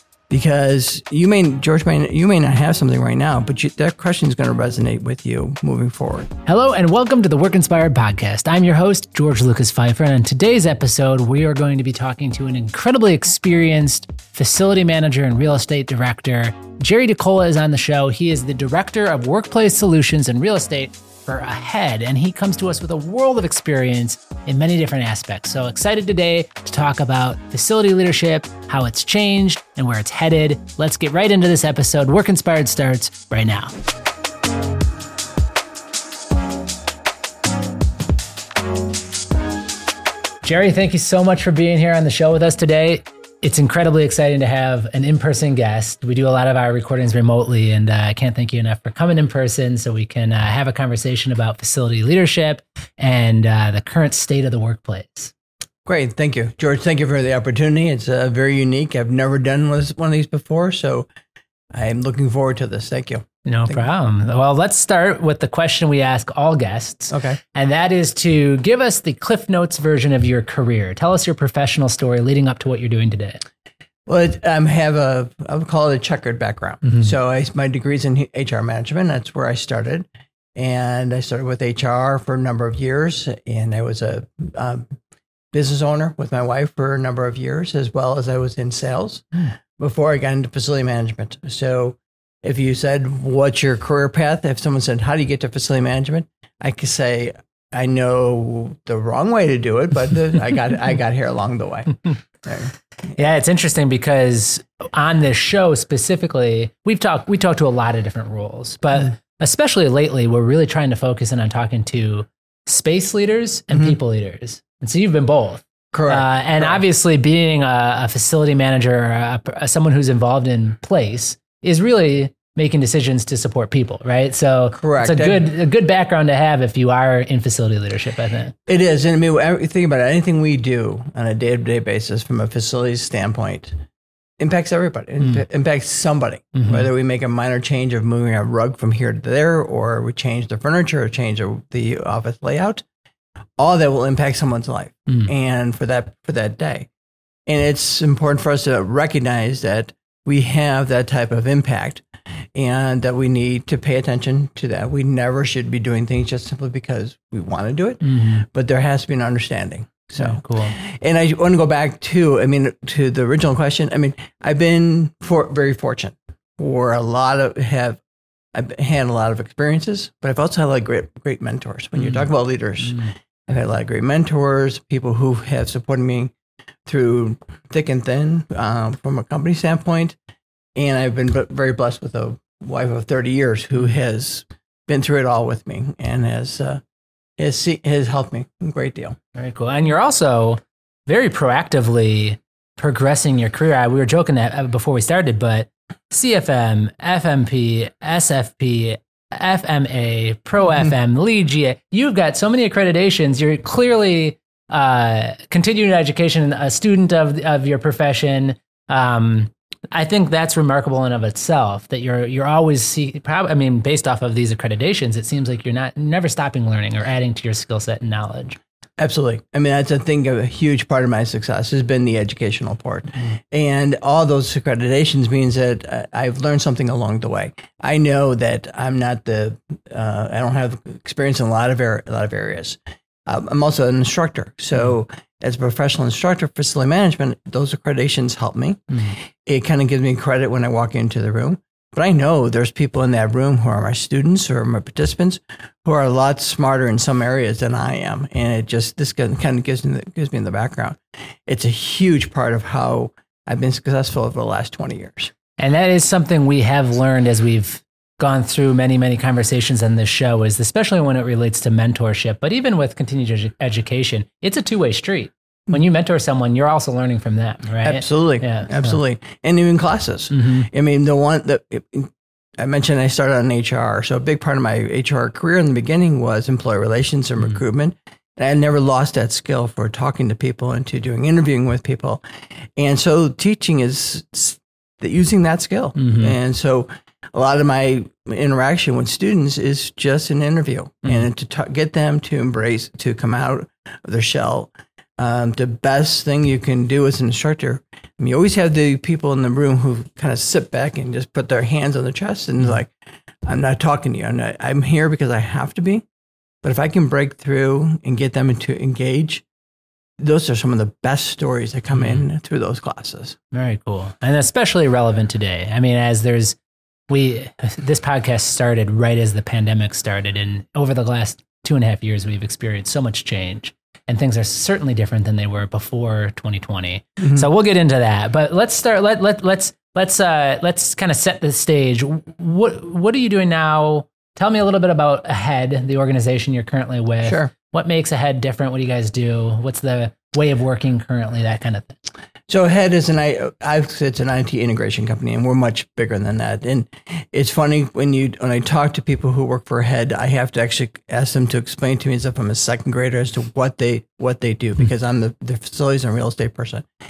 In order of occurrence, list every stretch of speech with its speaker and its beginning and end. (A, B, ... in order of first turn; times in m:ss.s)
0:00.3-0:06.3 A
0:06.4-0:33.7 B
0:40.4-0:55.3 B
0:55.8-1:01.1 A
1:01.7-1:03.8 A
1:03.4-1:13.4 B
1:07.1-1:07.4 A
1:14.1-1:24.9 A
1:25.5-1:42.7 A
1:43.1-2:08.5 B
1:55.9-1:56.8 A
2:04.7-2:05.5 A
2:08.6-2:13.7 A
2:14.4-2:22.8 A
2:16.6-2:16.9 B
2:23.6-2:26.9 A
2:27.5-2:32.0 A
2:32.5-2:48.0 A
2:38.0-2:38.4 B
2:40.2-2:40.8 B
2:48.5-2:56.3 A
2:52.0-2:52.2 B
2:56.8-3:00.2 A
3:00.8-3:06.8 A
3:07.4-3:09.2 A
3:09.3-3:38.6 B
3:39.0-4:15.3 A
4:15.6-4:29.0 B
4:27.8-4:42.2 A
4:30.3-4:30.7 B
4:42.8-5:02.9 A
4:46.0-4:46.3 B
5:03.4-5:06.0 A
5:06.6-5:09.4 A
5:10.2-5:13.4 A
5:11.9-5:12.2 B
5:13.5-5:16.6 B
5:17.1-5:42.0 B
5:27.2-5:27.4 A
5:37.2-5:37.5 A
5:42.5-5:56.9 A